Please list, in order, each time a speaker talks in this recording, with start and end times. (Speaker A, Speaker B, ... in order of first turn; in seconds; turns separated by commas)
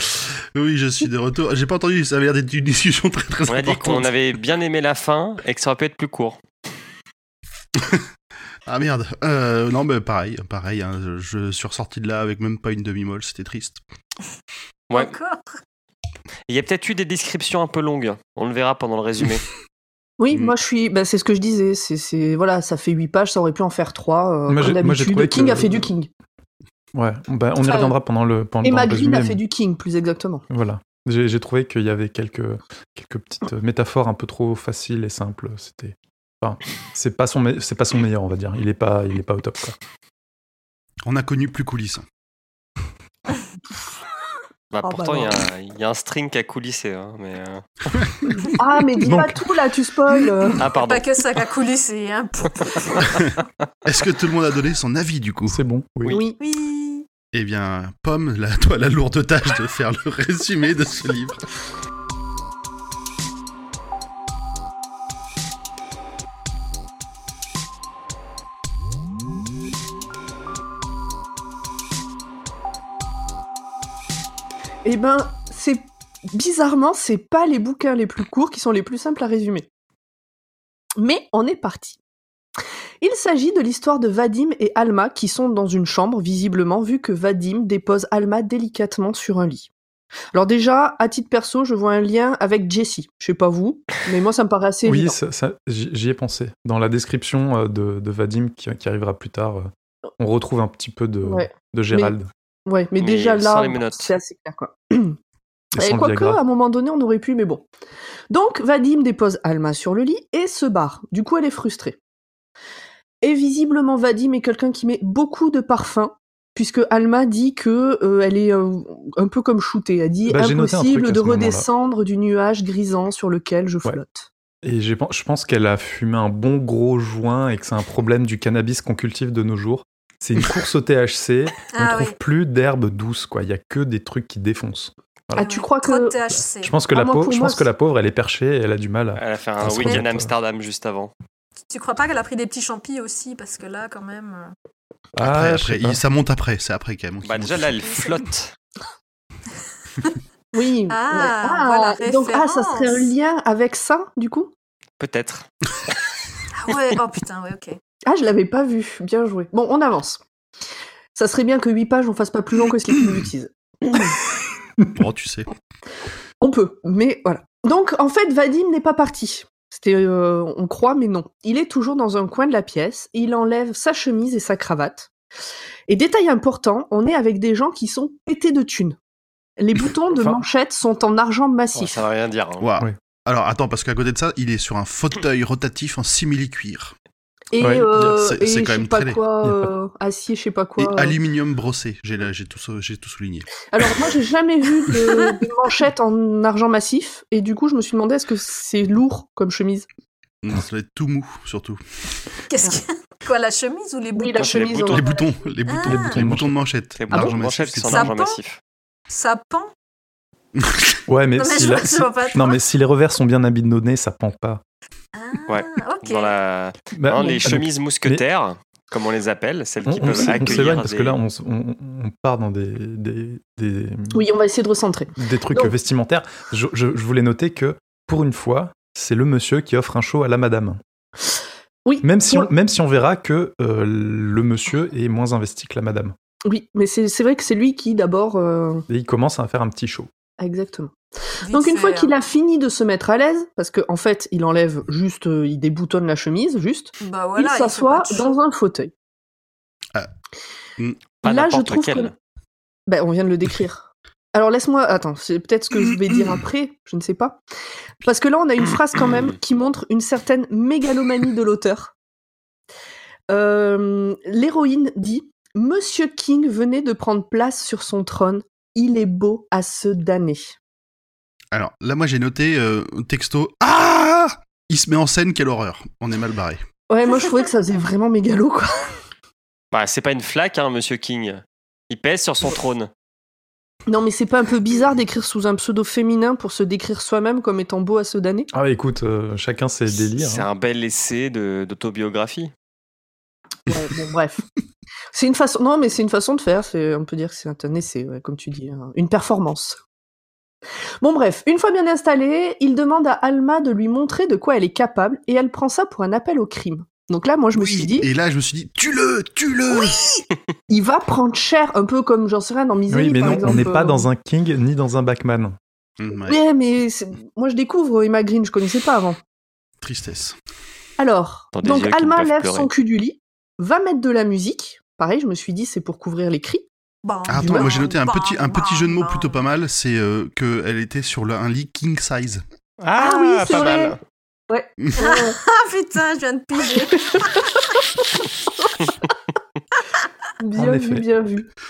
Speaker A: 0.5-4.1, Speaker B: 3.5-6.4, Speaker A: 8.7-13.8, Speaker B: 14.9-15.1, Speaker C: 14.9-15.6, Speaker B: 16.5-19.5, Speaker D: 20.2-26.1, Speaker E: 24.5-25.9, Speaker E: 26.9-29.4, Speaker D: 27.6-27.9, Speaker D: 28.6-30.4, Speaker E: 30.5-39.8, Speaker A: 41.0-42.0, Speaker B: 44.7-47.8, Speaker D: 44.8-45.4, Speaker D: 48.4-50.6, Speaker E: 49.0-49.5, Speaker B: 50.6-51.2, Speaker C: 50.8-53.2, Speaker A: 53.9-55.6, Speaker E: 55.5-56.2, Speaker D: 56.1-56.4, Speaker C: 56.4-57.0, Speaker A: 57.3-61.4, Speaker D: 74.8-79.7, Speaker D: 81.0-82.0, Speaker D: 83.0-89.7, Speaker D: 90.3-95.2, Speaker E: 94.8-102.3, Speaker D: 101.2-102.1, Speaker D: 102.7-105.2, Speaker B: 103.0-104.1, Speaker E: 105.7-106.4, Speaker D: 105.8-107.6, Speaker D: 108.3-112.0, Speaker D: 113.2-124.3, Speaker E: 120.3-121.7, Speaker E: 124.6-135.5, Speaker C: 131.7-132.2, Speaker D: 135.3-136.2, Speaker C: 135.3-136.7, Speaker E: 136.6-140.3, Speaker D: 136.9-137.7, Speaker B: 139.2-141.1, Speaker C: 141.7-144.5, Speaker E: 145.2-146.0, Speaker A: 145.2-147.7, Speaker B: 147.2-148.5, Speaker C: 147.7-148.2, Speaker D: 150.5-154.5, Speaker C: 150.9-153.1, Speaker B: 155.0-155.4, Speaker C: 156.5-157.8, Speaker D: 158.1-160.2, Speaker D: 161.1-164.2, Speaker A: 164.9-165.5, Speaker D: 166.4-175.1, Speaker D: 175.9-178.9, Speaker D: 179.6-182.0, Speaker E: 180.1-180.4, Speaker B: 181.7-182.6, Speaker A: 182.6-186.9, Speaker D: 187.5-191.2, Speaker E: 187.6-188.1, Speaker A: 188.0-189.2, Speaker E: 189.4-189.7, Speaker A: 190.8-193.6, Speaker D: 193.7-199.8, Speaker A: 200.4-201.8, Speaker C: 202.5-204.9, Speaker D: 204.1-205.2, Speaker B: 204.4-205.0, Speaker A: 204.9-208.1, Speaker C: 205.7-206.2, Speaker E: 205.8-206.6, Speaker B: 206.9-208.6, Speaker C: 207.9-208.4, Speaker C: 209.1-209.7, Speaker A: 210.6-211.0, Speaker E: 211.1-214.6, Speaker C: 211.4-212.6, Speaker C: 215.1-216.3, Speaker B: 215.5-221.2, Speaker E: 216.9-218.2, Speaker E: 219.8-224.2, Speaker D: 224.1-225.7, Speaker E: 225.2-230.8, Speaker D: 231.8-232.5, Speaker E: 232.0-236.1, Speaker D: 236.4-238.9, Speaker E: 238.9-240.1, Speaker D: 240.4-240.9, Speaker C: 241.4-242.1, Speaker D: 241.5-248.9, Speaker C: 247.0-248.3, Speaker B: 251.2-252.1, Speaker D: 251.2-252.1, Speaker D: 252.9-257.4, Speaker D: 258.0-261.9, Speaker D: 263.3-270.6, Speaker A: 271.5-276.6, Speaker D: 276.9-279.0, Speaker B: 279.7-282.9, Speaker D: 283.9-288.5, Speaker E: 288.5-290.5, Speaker B: 290.1-292.5, Speaker D: 293.7-294.4, Speaker D: 295.1-299.8, Speaker D: 301.0-308.1, Speaker A: 307.5-310.1, Speaker D: 310.7-314.1, Speaker E: 312.9-315.6, Speaker A: 316.0-316.4, Speaker D: 316.3-319.2, Speaker A: 319.8-320.4, Speaker D: 321.0-326.6, Speaker B: 321.5-322.7, Speaker C: 327.0-329.4, Speaker A: 327.3-332.4, Speaker D: 327.4-327.8, Speaker B: 332.8-334.0, Speaker D: 332.9-334.0, Speaker D: 334.5-335.4, Speaker C: 335.0-337.4, Speaker D: 338.6-338.9, Speaker D: 340.4-341.5, Speaker E: 340.6-341.1